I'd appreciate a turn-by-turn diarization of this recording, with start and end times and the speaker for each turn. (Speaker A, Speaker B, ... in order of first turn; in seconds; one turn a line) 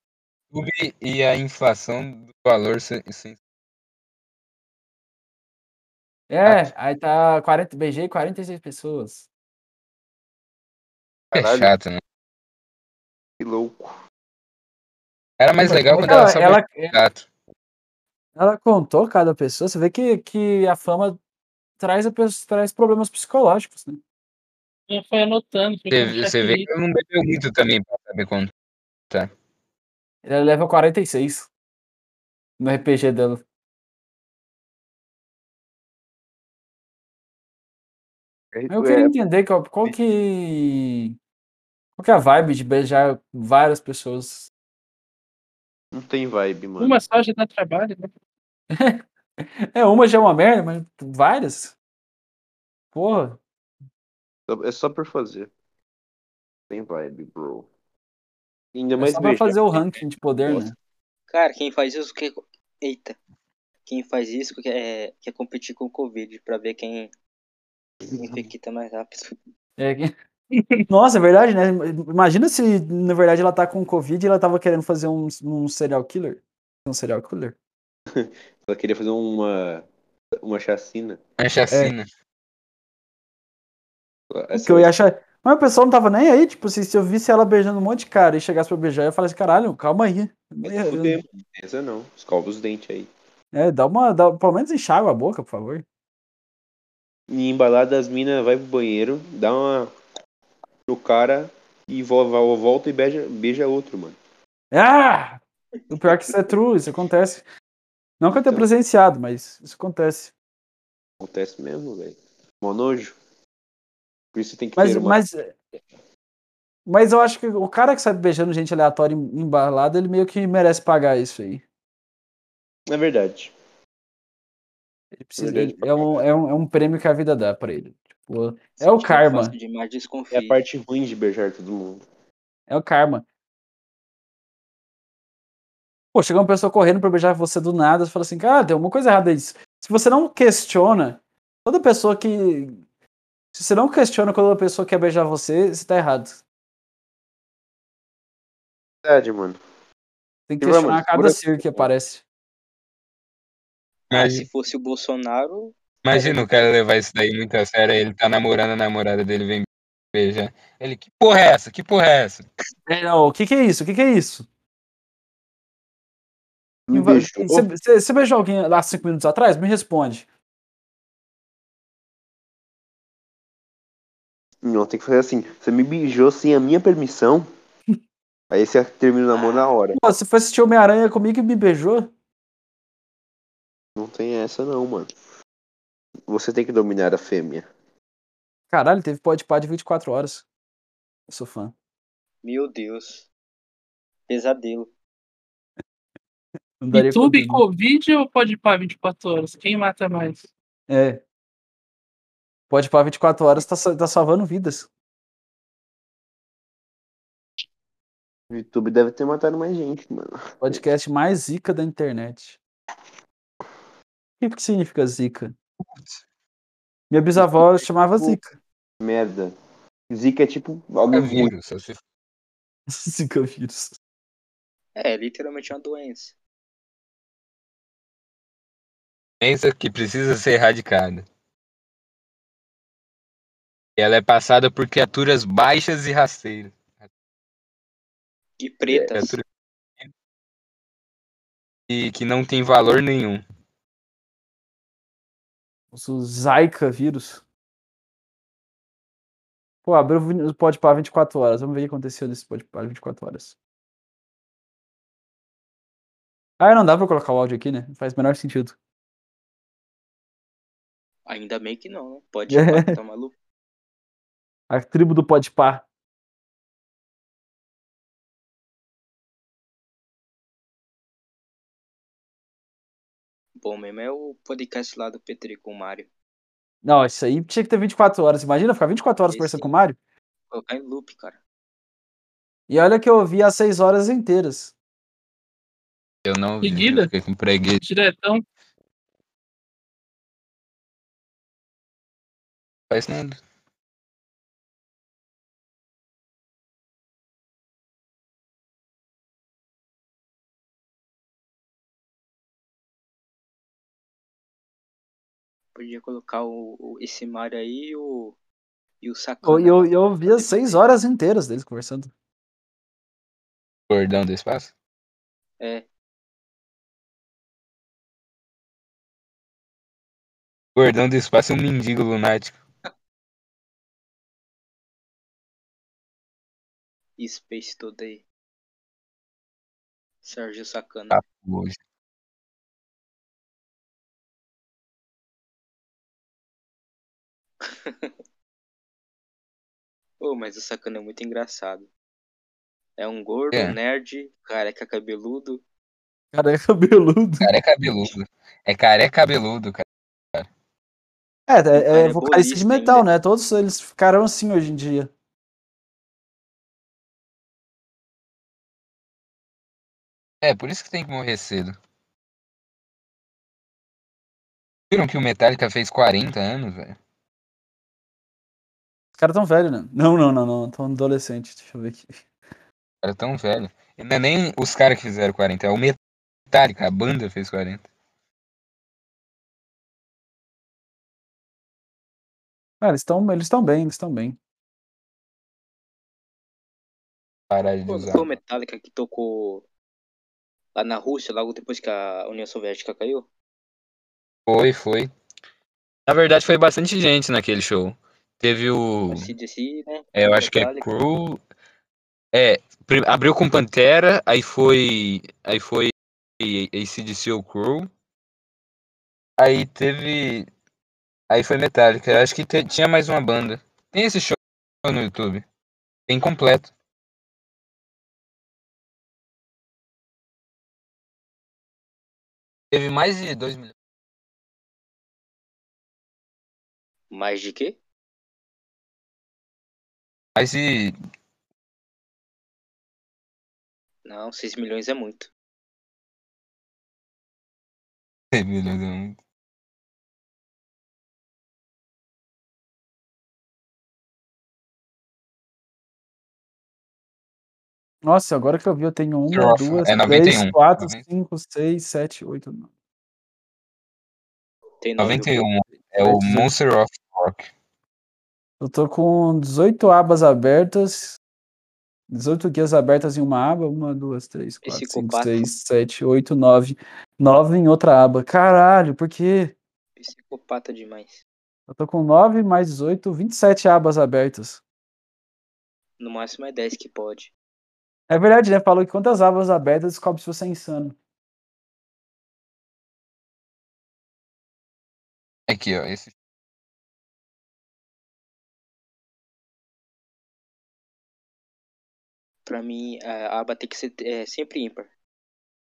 Speaker A: 0.5-3.4
Speaker B: 6.3-9.3
Speaker C: 11.3-11.7
Speaker A: 11.3-12.0
Speaker C: 13.4-13.9
Speaker A: 15.4-17.2
Speaker B: 15.6-17.0
Speaker B: 18.4-21.2
Speaker B: 21.8-24.0
Speaker D: 24.9-26.7
Speaker A: 25.9-28.5
Speaker B: 30.2-31.5
Speaker B: 32.6-33.4
Speaker C: 38.5-39.2
Speaker B: 38.7-41.2
Speaker B: 42.0-44.5
Speaker C: 45.9-47.0
Speaker D: 46.8-48.1
Speaker B: 48.7-51.8
Speaker B: 52.9-53.4
Speaker C: 54.5-55.5
Speaker C: 56.7-57.7
Speaker C: 58.7-60.7
Speaker B: 59.0-60.8
Speaker E: 61.3-63.2
Speaker E: 63.9-67.1
Speaker E: 68.2-69.4
Speaker B: 69.8-70.1
Speaker D: 70.5-70.8
Speaker B: 70.9-77.6
Speaker C: 78.1-79.8
Speaker C: 80.4-81.2
Speaker A: 81.4-82.1
Speaker C: 84.3-84.9
Speaker B: 84.5-91.2
Speaker C: 90.6-93.1
Speaker B: 93.5-95.8
Speaker C: 97.3-99.9
Speaker C: 100.9-104.2
Speaker B: 104.7-107.5
Speaker B: 108.2-110.3
Speaker C: 111.2-113.2
Speaker C: 114.3-115.2
Speaker B: 114.8-115.5
Speaker B: 116.9-121.6
Speaker C: 122.9-123.5
Speaker B: 125.1-129.6
Speaker C: 125.4-126.2
Speaker E: 128.8-130.6
Speaker C: 130.3-132.0
Speaker B: 132.7-133.2
Speaker B: 136.1-142.8
Speaker B: 143.5-146.4
Speaker C: 149.0-149.6
Speaker B: 150.5-152.2
Speaker C: 150.6-151.9
Speaker E: 154.1-156.7
Speaker A: 154.1-154.5
Speaker A: 156.0-162.4
Speaker B: 162.9-164.5
Speaker C: 166.9-167.7
Speaker B: 166.9-170.3
Speaker C: 174.6-177.5
Speaker C: 178.5-180.0
Speaker B: 179.9-182.1
Speaker C: 184.0-185.1
Speaker C: 186.3-187.7
Speaker B: 188.7-190.4
Speaker B: 191.3-191.7
Speaker E: 192.4-193.3
Speaker E: 194.3-194.9
Speaker B: 196.8-197.6
Speaker D: 196.9-200.5
Speaker B: 200.9-201.2
Speaker B: 202.7-204.9
Speaker C: 208.5-210.8
Speaker B: 210.6-212.6
Speaker B: 214.4-215.6
Speaker B: 217.1-218.5
Speaker C: 219.0-219.5
Speaker C: 220.1-221.5
Speaker A: 221.1-222.0
Speaker B: 222.9-224.0
Speaker E: 225.0-226.3
Speaker A: 229.4-231.3
Speaker A: 234.0-236.8
Speaker E: 238.6-239.4
Speaker A: 239.1-239.4
Speaker A: 241.9-243.4
Speaker B: 245.9-247.4
Speaker B: 249.8-253.6
Speaker B: 256.6-258.8
Speaker E: 261.3-263.3
Speaker B: 262.5-263.0
Speaker B: 264.7-265.8
Speaker E: 273.6-276.1
Speaker B: 276.8-280.0
Speaker E: 279.3-279.7
Speaker E: 280.5-281.4
Speaker B: 282.7-284.7
Speaker A: 286.2-287.8
Speaker D: 286.6-287.1
Speaker D: 287.8-288.4
Speaker A: 292.9-293.4
Speaker E: 305.8-308.4
Speaker E: 309.0-310.8
Speaker B: 309.4-312.1
Speaker A: 313.9-314.7
Speaker E: 315.6-315.9
Speaker A: 320.8-322.6
Speaker E: 327.2-328.2
Speaker E: 330.2-331.2
Speaker A: 331.1-331.8
Speaker E: 337.6-338.1
Speaker E: 340.2-341.9
Speaker E: 343.0-345.6
Speaker B: 346.3-347.5
Speaker A: 347.4-350.5
Speaker B: 351.5-355.1
Speaker E: 351.8-353.1
Speaker A: 360.4-361.8
Speaker A: 364.9-367.0
Speaker B: 369.2-372.2
Speaker A: 373.0-376.0
Speaker A: 376.5-377.9
Speaker B: 382.8-384.4
Speaker A: 387.5-388.4
Speaker E: 387.9-389.6
Speaker E: 390.8-393.3
Speaker A: 394.5-395.1
Speaker A: 396.1-399.3
Speaker E: 399.1-400.9
Speaker A: 400.1-401.4
Speaker A: 402.3-407.9
Speaker A: 409.4-410.5
Speaker A: 411.3-415.4
Speaker A: 416.1-416.7
Speaker A: 422.7-423.7
Speaker E: 427.1-427.8
Speaker A: 430.4-431.0
Speaker E: 434.1-435.3
Speaker A: 438.3-439.2
Speaker B: 448.0-452.7
Speaker A: 449.3-451.0
Speaker E: 454.8-455.5
Speaker A: 455.0-457.5
Speaker B: 456.0-456.5
Speaker B: 458.6-461.2
Speaker B: 462.1-469.6
Speaker E: 464.6-465.5
Speaker E: 470.0-471.2
Speaker B: 471.7-474.6
Speaker E: 476.0-477.3
Speaker B: 478.1-481.0
Speaker A: 485.5-486.1
Speaker E: 492.5-494.9